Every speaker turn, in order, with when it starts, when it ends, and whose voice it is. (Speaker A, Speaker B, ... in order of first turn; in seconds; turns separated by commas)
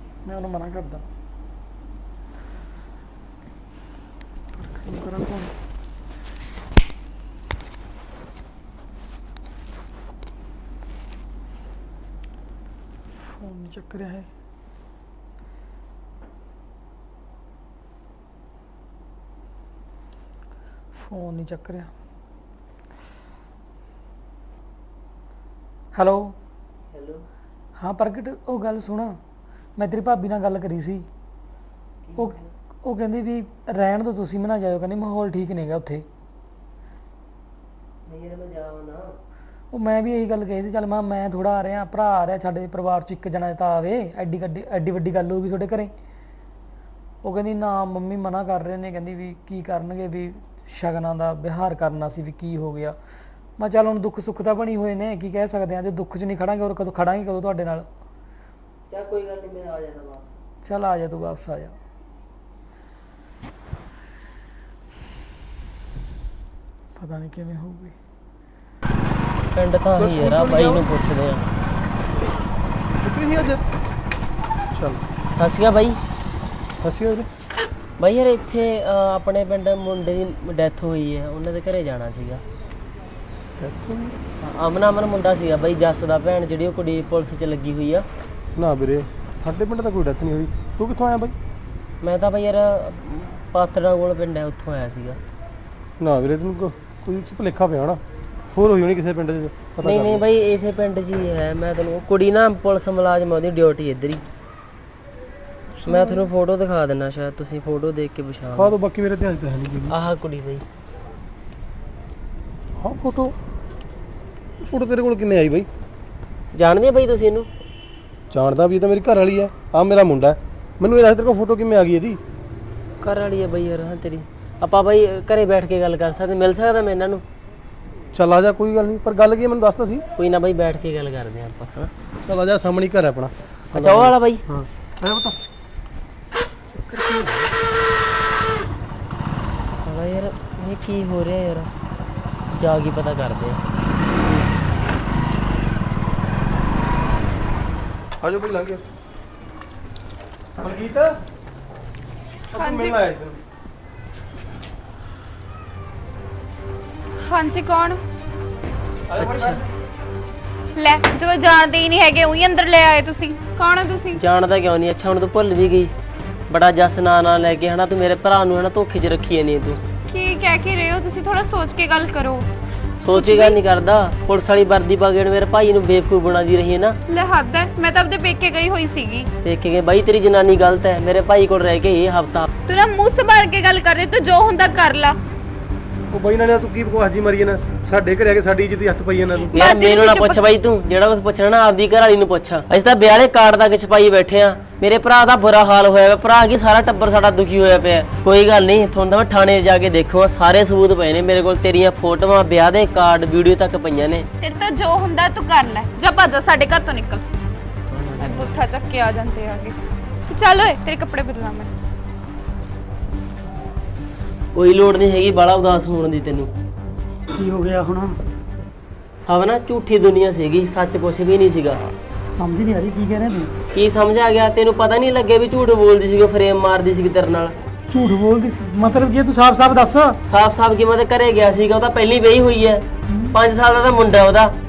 Speaker A: 0.2-1.0, Speaker A: 4.5-5.5, Speaker A: 13.2-14.3, Speaker A: 20.9-21.9, Speaker A: 25.9-26.4, Speaker B: 26.9-27.2, Speaker A: 27.8-29.2, Speaker A: 29.8-31.1, Speaker B: 32.0-32.5, Speaker A: 32.2-36.0, Speaker B: 38.0-39.2, Speaker A: 39.7-45.9, Speaker A: 47.2-53.0, Speaker A: 53.6-57.9, Speaker B: 58.9-60.4, Speaker A: 60.6-61.7, Speaker A: 67.0-68.0, Speaker B: 69.5-71.4, Speaker C: 70.0-70.8, Speaker C: 73.0-73.7, Speaker C: 74.7-75.0, Speaker B: 75.3-76.0, Speaker C: 76.8-77.3, Speaker B: 78.0-82.4, Speaker C: 83.6-84.2, Speaker B: 84.4-88.0, Speaker C: 88.5-91.3, Speaker B: 92.0-95.2, Speaker C: 96.0-98.0, Speaker C: 98.5-100.2, Speaker B: 99.8-104.2, Speaker C: 105.8-106.1, Speaker B: 105.8-108.7, Speaker C: 108.5-109.9, Speaker B: 109.9-110.6, Speaker C: 112.8-113.3, Speaker C: 114.6-115.7, Speaker B: 116.5-117.5, Speaker C: 118.3-122.2, Speaker B: 123.0-127.2, Speaker C: 128.1-130.0, Speaker B: 130.2-131.9, Speaker C: 132.2-134.7, Speaker B: 133.7-134.4, Speaker A: 135.0-135.3, Speaker C: 136.8-137.5, Speaker B: 139.5-141.7, Speaker B: 142.5-143.6, Speaker C: 148.2-148.8, Speaker C: 150.6-151.2, Speaker C: 152.5-153.4, Speaker D: 152.5-153.0, Speaker D: 157.2-158.0, Speaker C: 159.1-159.7, Speaker B: 159.2-159.6, Speaker D: 160.7-164.2, Speaker B: 164.1-165.9, Speaker B: 166.5-169.8, Speaker D: 170.1-172.5, Speaker B: 173.0-177.0, Speaker D: 173.1-173.6, Speaker D: 177.1-179.3, Speaker B: 179.4-182.5, Speaker D: 182.7-185.2, Speaker C: 186.1-189.6, Speaker D: 189.5-190.6, Speaker B: 189.5-204.3, Speaker D: 204.4-207.2, Speaker B: 207.9-208.6, Speaker D: 208.2-211.7, Speaker B: 214.5-216.5, Speaker A: 217.3-218.2, Speaker B: 219.2-221.8, Speaker A: 222.3-223.5, Speaker B: 223.7-227.5, Speaker A: 227.9-230.2, Speaker B: 230.2-234.5, Speaker A: 233.1-233.3